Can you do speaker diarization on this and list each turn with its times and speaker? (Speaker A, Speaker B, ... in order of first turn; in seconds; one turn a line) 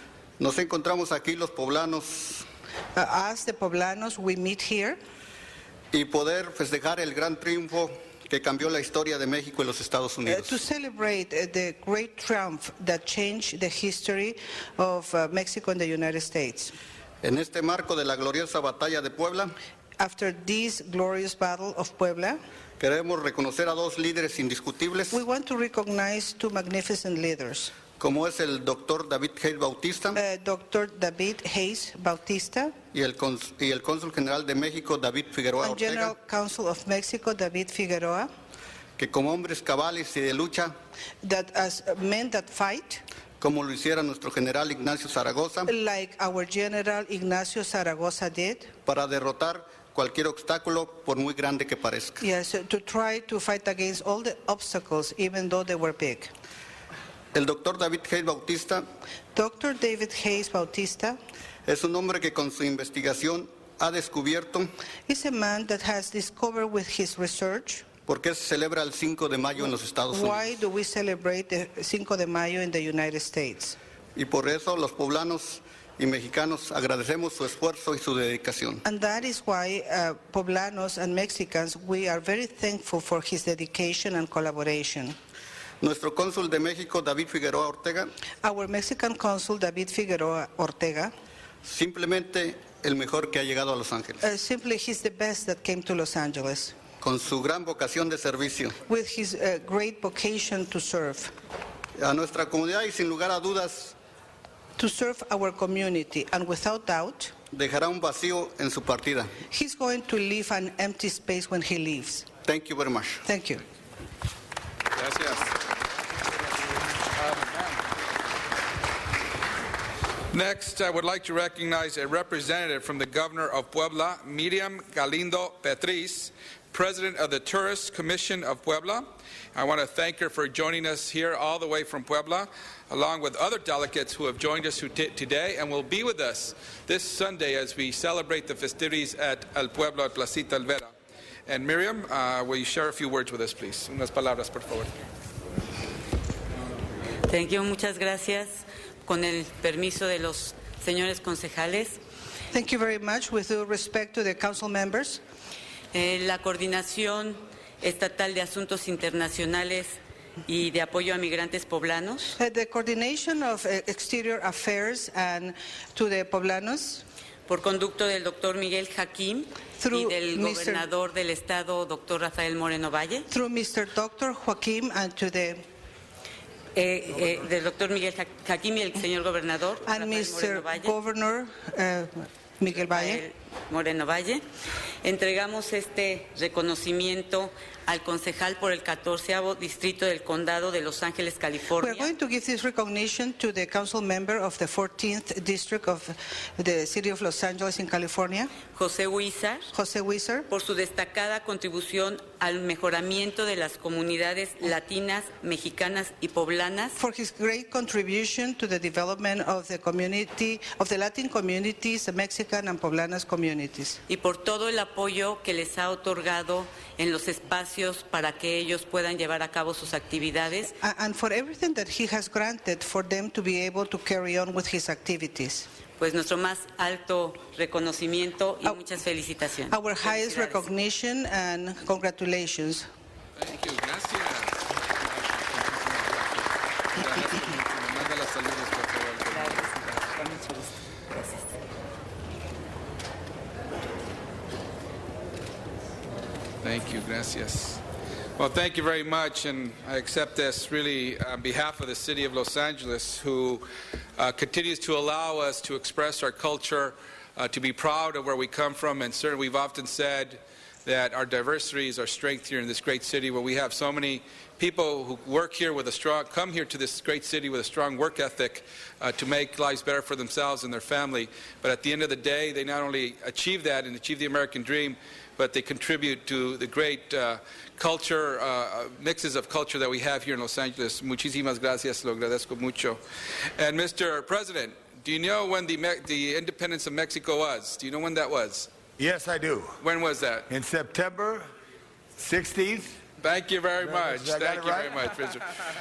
Speaker A: 0.4-2.5
Speaker B: 3.0-5.0
Speaker A: 5.9-10.6
Speaker B: 10.3-16.7
Speaker A: 17.2-19.6
Speaker B: 20.0-22.4
Speaker A: 22.8-25.2
Speaker B: 25.1-27.7
Speaker A: 28.0-30.2
Speaker B: 30.2-32.7
Speaker A: 32.9-36.1
Speaker B: 35.6-38.3
Speaker A: 39.0-40.7
Speaker B: 41.2-43.0
Speaker A: 43.4-45.7
Speaker B: 45.7-48.7
Speaker A: 48.9-52.2
Speaker B: 52.2-56.3
Speaker A: 57.4-58.8
Speaker B: 59.4-61.2
Speaker A: 61.7-64.7
Speaker B: 65.1-67.9
Speaker A: 68.1-70.6
Speaker B: 70.1-73.8
Speaker A: 74.2-78.8
Speaker B: 78.8-85.2
Speaker A: 85.8-88.1
Speaker B: 88.4-91.1
Speaker A: 91.7-94.2
Speaker B: 94.2-96.7
Speaker A: 97.0-98.8
Speaker B: 98.9-101.3
Speaker A: 102.0-104.0
Speaker B: 104.8-107.3
Speaker A: 107.5-109.4
Speaker B: 109.5-112.3
Speaker A: 112.5-113.2
Speaker B: 113.3-113.6
Speaker C: 115.0-115.5
Speaker C: 120.3-140.9
Speaker C: 141.5-144.9
Speaker D: 147.3-152.0
Speaker B: 152.5-155.2
Speaker D: 155.9-162.4
Speaker B: 162.4-167.0
Speaker D: 167.5-173.3
Speaker B: 169.8-170.9
Speaker B: 173.3-175.6
Speaker D: 176.8-180.9
Speaker B: 179.9-183.2
Speaker D: 182.8-184.4
Speaker D: 185.0-192.1
Speaker B: 191.8-198.6
Speaker D: 198.7-199.7
Speaker B: 199.7-200.5
Speaker D: 200.5-207.0
Speaker B: 207.0-214.0
Speaker D: 214.1-220.8
Speaker B: 220.8-225.7
Speaker D: 226.0-230.7
Speaker B: 229.7-232.9
Speaker C: 233.4-239.6
Speaker D: 239.3-241.4
Speaker C: 246.6-247.8
Speaker C: 248.4-253.7
Speaker C: 254.2-283.0
Speaker C: 283.6-288.7
Speaker E: 289.0-289.8
Speaker C: 289.8-290.5
Speaker E: 290.5-291.5
Speaker E: 292.2-293.0
Speaker C: 293.2-295.4
Speaker E: 293.8-295.1